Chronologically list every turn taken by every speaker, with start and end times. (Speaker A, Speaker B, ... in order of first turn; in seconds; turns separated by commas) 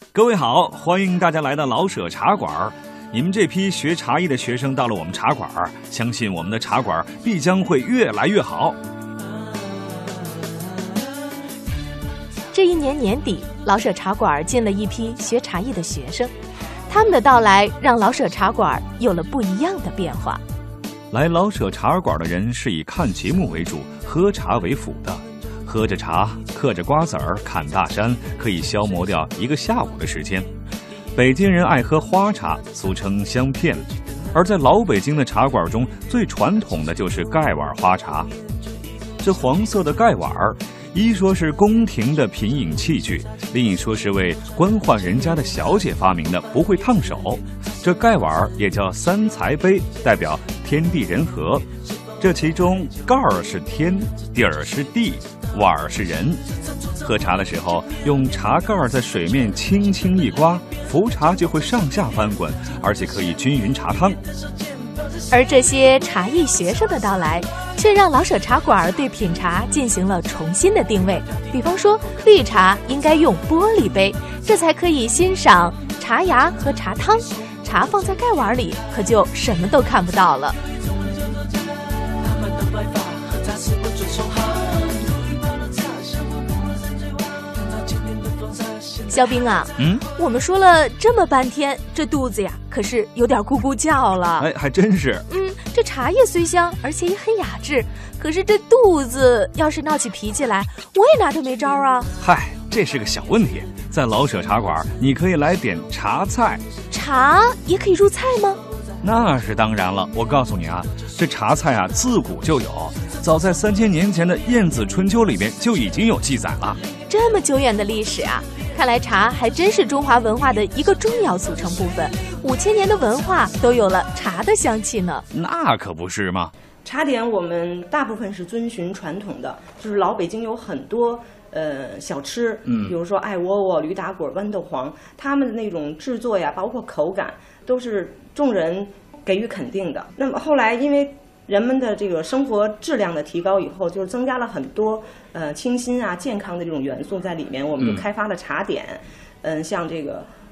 Speaker A: 0.1-8.8, Speaker B: 12.5-16.3, Speaker B: 16.9-20.4, Speaker A: 21.1-30.5, Speaker A: 31.1-38.3, Speaker A: 39.2-51.6, Speaker A: 52.2-56.4, Speaker A: 57.0-64.2, Speaker B: 65.3-80.6, Speaker B: 89.1-94.5, Speaker A: 89.8-90.1, Speaker A: 94.4-95.2, Speaker B: 95.3-102.1, Speaker A: 102.2-106.6, Speaker B: 106.9-108.6, Speaker A: 109.0-116.8, Speaker B: 117.1-125.2, Speaker A: 125.3-126.5, Speaker C: 126.8-150.3, Speaker A: 132.7-132.9